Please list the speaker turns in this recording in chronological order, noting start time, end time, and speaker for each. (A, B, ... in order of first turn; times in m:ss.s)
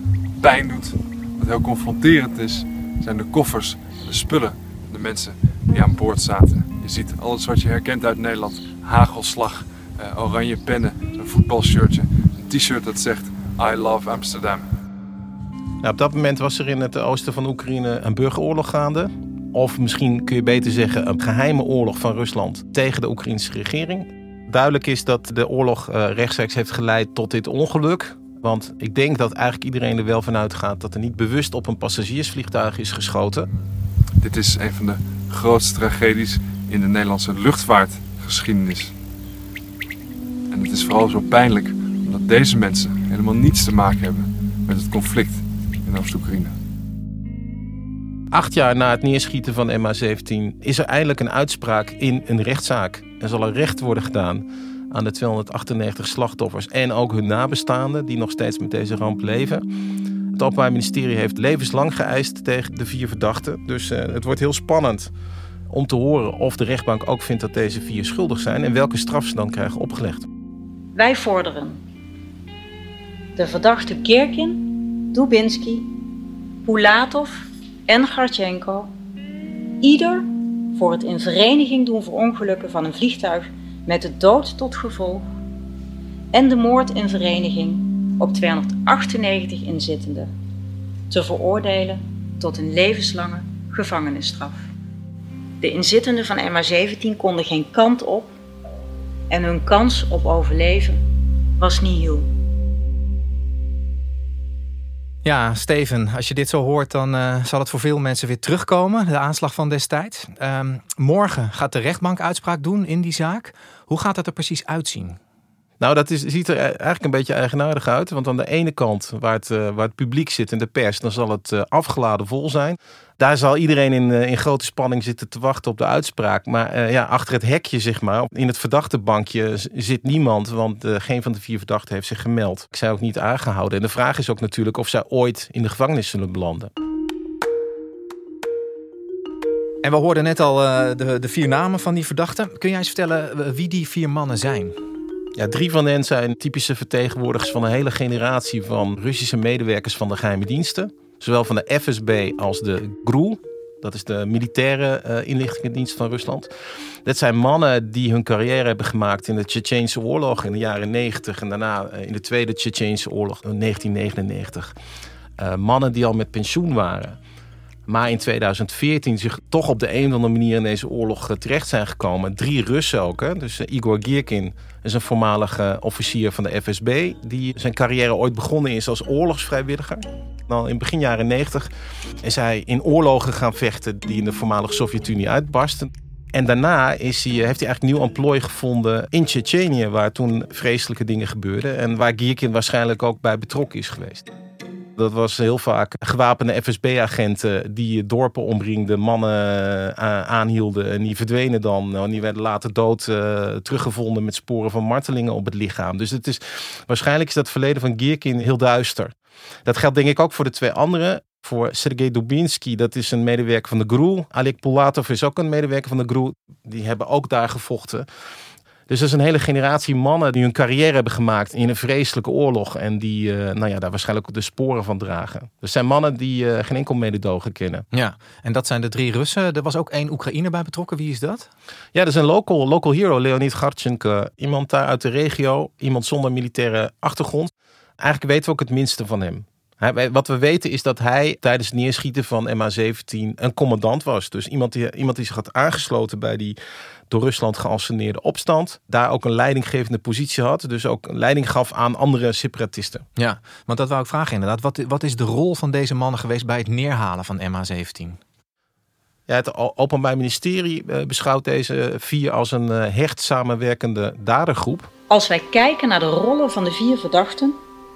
0:00.4-0:14.6 A
0:15.8-0:33.5 B
0:34.2-0:38.9 A
0:40.5-0:46.5 A
0:48.3-0:59.6 B
1:00.3-1:05.1 B
1:05.7-1:10.3 B
1:10.9-1:11.8 C
1:13.4-1:15.9 C
1:16.6-1:18.9 C
1:19.8-1:25.2 C
1:26.3-1:30.3 C
1:31.1-1:34.7 C
1:35.6-1:38.3 C
1:39.3-1:41.0 C
1:41.6-1:42.3 C
1:45.2-1:55.2 D
1:55.8-2:16.7 B
2:19.8-2:24.8 D
2:25.4-2:36.5 B
2:37.0-2:44.7 B
2:45.4-2:47.2 B
2:47.9-3:01.7 B
3:02.2-3:14.3 B
3:15.0-3:29.1 B
3:29.7-3:38.1 B
3:38.9-3:47.9 B
3:47.9-3:51.5 D
3:51.9-4:06.6 B
4:07.1-4:13.0 B
4:13.2-4:18.2 D
4:19.3-4:24.9 B
4:25.1-4:27.6 C